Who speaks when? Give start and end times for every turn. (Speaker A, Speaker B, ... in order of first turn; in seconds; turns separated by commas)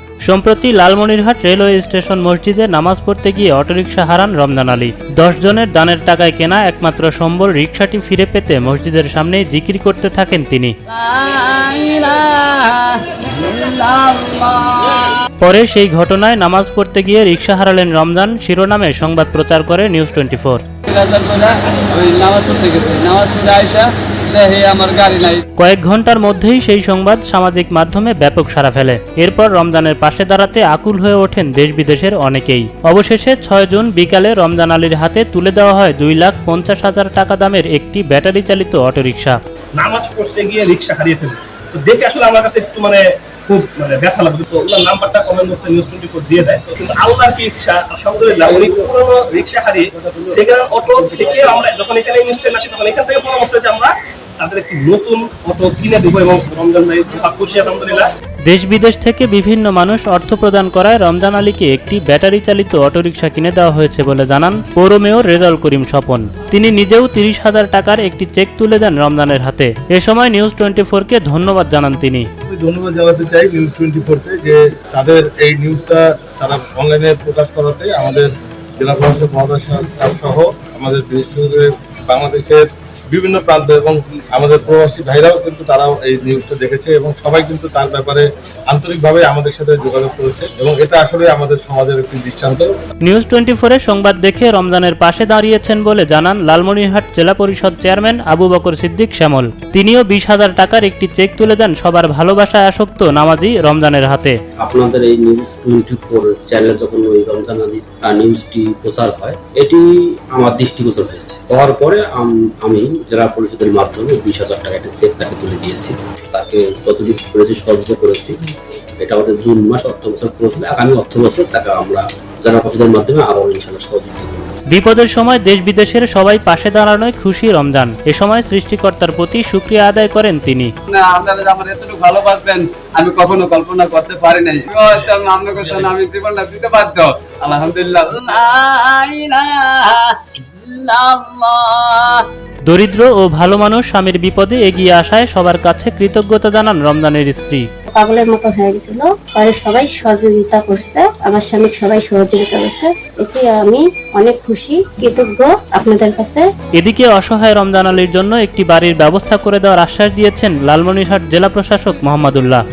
Speaker A: 0.3-10.7, Speaker B: 10.9-15.1, Speaker A: 15.4-20.6, Speaker B: 20.9-25.4, Speaker A: 25.6-39.4, Speaker C: 39.8-58.1, Speaker A: 58.5-72.3, Speaker D: 72.5-92.7, Speaker A: 93.1-104.4, Speaker E: 104.6-118.4, Speaker E: 119.0-124.5, Speaker A: 124.7-130.7, Speaker B: 130.9-142.2, Speaker A: 142.7-147.6, Speaker F: 147.9-156.4, Speaker A: 156.8-162.6